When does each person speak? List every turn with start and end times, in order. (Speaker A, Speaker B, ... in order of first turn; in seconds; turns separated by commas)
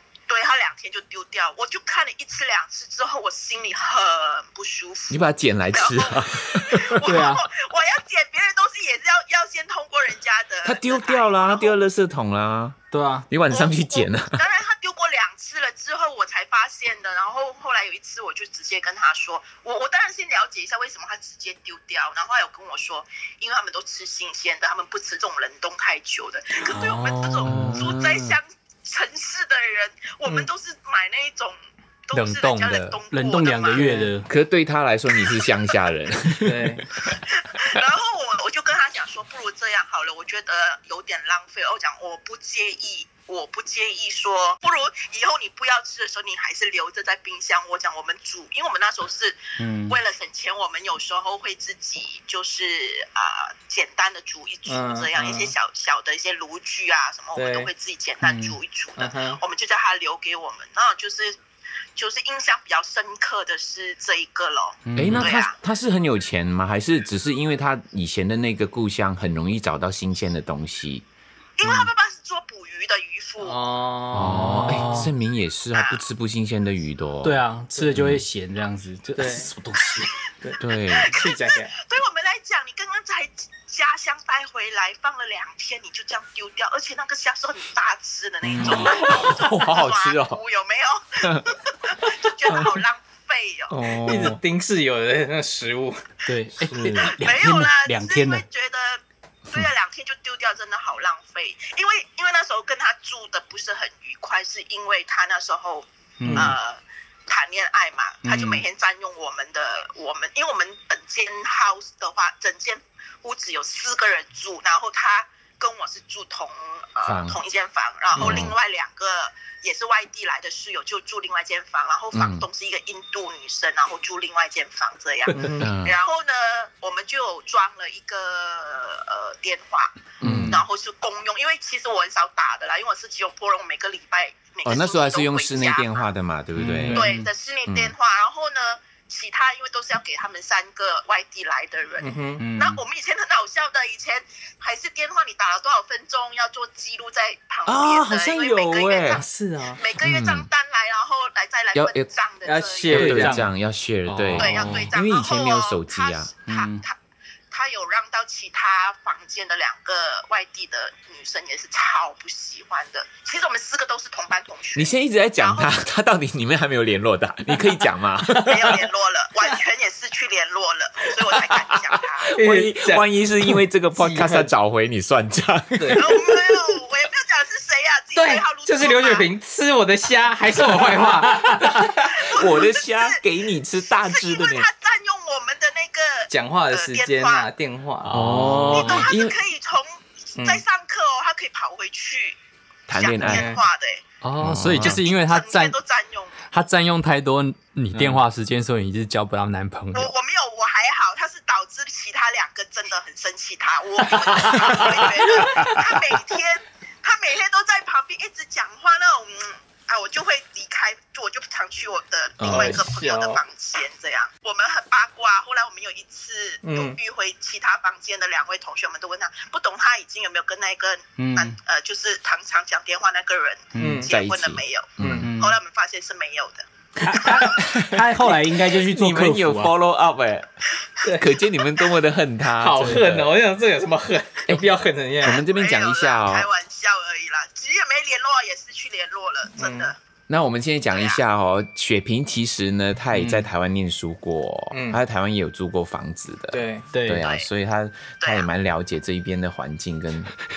Speaker A: 0.3-11.8, Speaker B: 5.1-7.2, Speaker C: 7.0-7.5, Speaker B: 10.7-12.8, Speaker C: 12.9-13.3, Speaker B: 13.3-14.4, Speaker A: 13.5-33.9, Speaker C: 26.7-27.8, Speaker B: 27.4-28.4, Speaker D: 32.1-33.0, Speaker C: 33.1-34.3, Speaker E: 33.8-34.1, Speaker B: 34.3-37.2, Speaker E: 36.4-36.9, Speaker A: 37.3-61.4, Speaker C: 49.6-50.0, Speaker E: 54.7-55.5, Speaker E: 57.4-57.7, Speaker C: 58.2-58.6, Speaker E: 59.0-59.4, Speaker A: 62.0-65.5, Speaker C: 64.9-65.3, Speaker B: 65.0-71.0, Speaker A: 71.6-73.6, Speaker E: 73.4-75.1, Speaker C: 74.1-75.1, Speaker B: 74.1-77.4, Speaker A: 75.7-76.0, Speaker C: 77.2-80.2, Speaker B: 77.9-78.2, Speaker E: 79.2-79.5, Speaker E: 80.4-81.8, Speaker B: 80.6-81.2, Speaker A: 80.9-93.8, Speaker C: 88.4-89.3, Speaker E: 88.7-90.3, Speaker B: 89.0-90.3, Speaker E: 93.7-96.1, Speaker B: 93.7-94.4, Speaker C: 94.1-94.3, Speaker C: 96.3-98.5, Speaker E: 96.6-97.1, Speaker A: 97.0-136.1, Speaker C: 106.2-106.5, Speaker E: 106.3-106.5, Speaker C: 108.2-108.7, Speaker B: 117.0-117.4, Speaker E: 118.2-118.5, Speaker B: 118.2-118.5, Speaker B: 122.1-122.5, Speaker E: 125.3-125.7, Speaker B: 125.6-126.0, Speaker B: 130.2-130.6, Speaker C: 130.2-130.6, Speaker B: 134.7-137.1, Speaker C: 136.6-137.3, Speaker A: 136.9-149.2, Speaker B: 137.7-137.9, Speaker E: 142.0-142.4, Speaker C: 142.4-142.8, Speaker B: 147.7-149.2, Speaker E: 149.1-149.8, Speaker A: 149.8-153.1, Speaker B: 150.0-150.5, Speaker B: 151.7-152.1, Speaker E: 152.4-153.5, Speaker B: 152.9-156.3, Speaker C: 152.9-153.5, Speaker C: 154.1-154.9, Speaker A: 154.4-156.9, Speaker C: 156.5-156.8, Speaker A: 157.5-165.8, Speaker B: 164.8-168.9, Speaker A: 168.3-172.3, Speaker B: 171.7-176.3, Speaker E: 172.3-174.5, Speaker E: 175.8-176.1, Speaker A: 175.9-179.3, Speaker E: 178.2-181.9, Speaker B: 181.6-184.7, Speaker A: 182.0-183.2, Speaker A: 183.9-187.5, Speaker E: 186.3-188.2, Speaker C: 188.1-189.1, Speaker B: 188.1-189.4, Speaker A: 188.7-192.4, Speaker E: 190.4-190.6, Speaker B: 192.9-193.5, Speaker A: 192.9-194.1, Speaker E: 193.2-193.7, Speaker D: 194.2-195.8, Speaker B: 194.4-195.0, Speaker A: 194.8-196.3, Speaker D: 196.5-200.1, Speaker B: 197.9-198.2, Speaker A: 199.9-227.5, Speaker B: 204.5-205.8, Speaker B: 212.4-212.8, Speaker E: 212.4-213.4, Speaker E: 216.6-217.0, Speaker C: 221.2-221.6, Speaker C: 223.7-224.1, Speaker E: 223.8-224.1, Speaker B: 224.1-225.3, Speaker C: 225.0-225.6, Speaker C: 227.0-229.8, Speaker B: 227.5-233.3, Speaker E: 231.0-231.3, Speaker E: 232.6-235.4, Speaker B: 235.2-236.5, Speaker A: 235.2-240.0, Speaker E: 239.6-239.9, Speaker B: 240.3-250.3, Speaker A: 240.9-241.2, Speaker C: 243.1-243.5, Speaker E: 244.7-245.0, Speaker E: 246.5-246.9, Speaker C: 246.9-247.2, Speaker A: 247.2-247.5, Speaker A: 248.2-248.5